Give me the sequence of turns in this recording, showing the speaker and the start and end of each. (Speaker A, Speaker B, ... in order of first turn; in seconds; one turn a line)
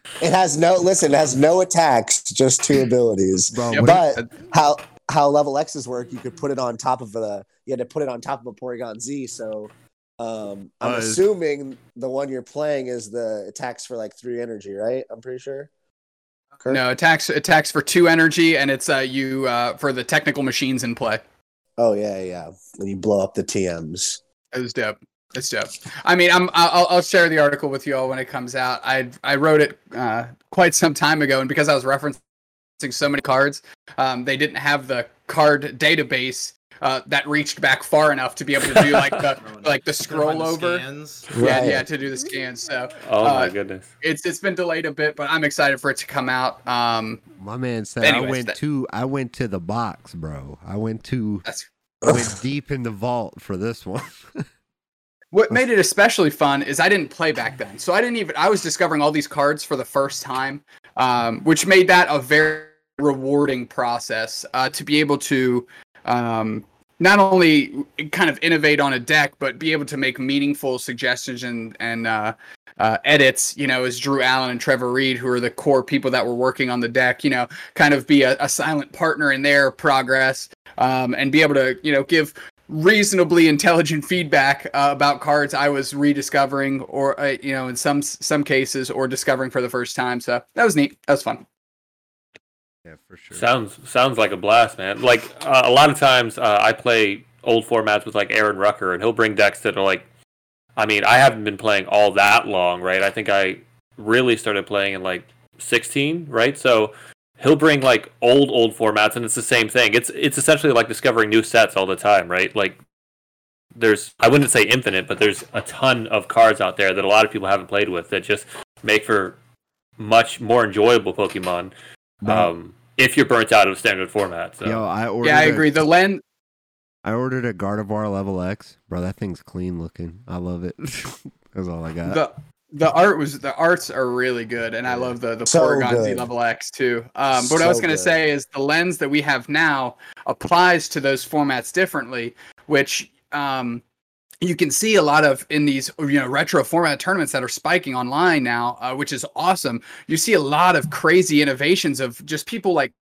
Speaker A: 0.2-15.7
Speaker B: 3.5-4.0
Speaker C: 3.7-4.3
Speaker B: 10.8-11.2
Speaker C: 16.7-21.2
Speaker A: 21.8-24.2
Speaker C: 24.5-32.2
Speaker C: 32.8-40.8
Speaker D: 39.4-41.4
Speaker A: 41.3-41.8
Speaker C: 41.4-47.2
Speaker E: 43.0-43.9
Speaker B: 47.4-51.4
Speaker C: 48.0-48.5
Speaker B: 52.0-54.4
Speaker C: 55.3-91.4
Speaker B: 92.8-93.5
Speaker E: 93.3-100.0
Speaker E: 100.8-112.8
Speaker E: 113.8-119.3
Speaker E: 120.0-121.7
Speaker B: 122.2-122.5
Speaker E: 122.2-124.8
Speaker B: 124.6-125.7
Speaker C: 125.2-126.2
Speaker B: 127.0-132.2
Speaker C: 132.1-143.8
Speaker A: 135.5-136.3
Speaker A: 137.3-138.2
Speaker C: 144.4-152.9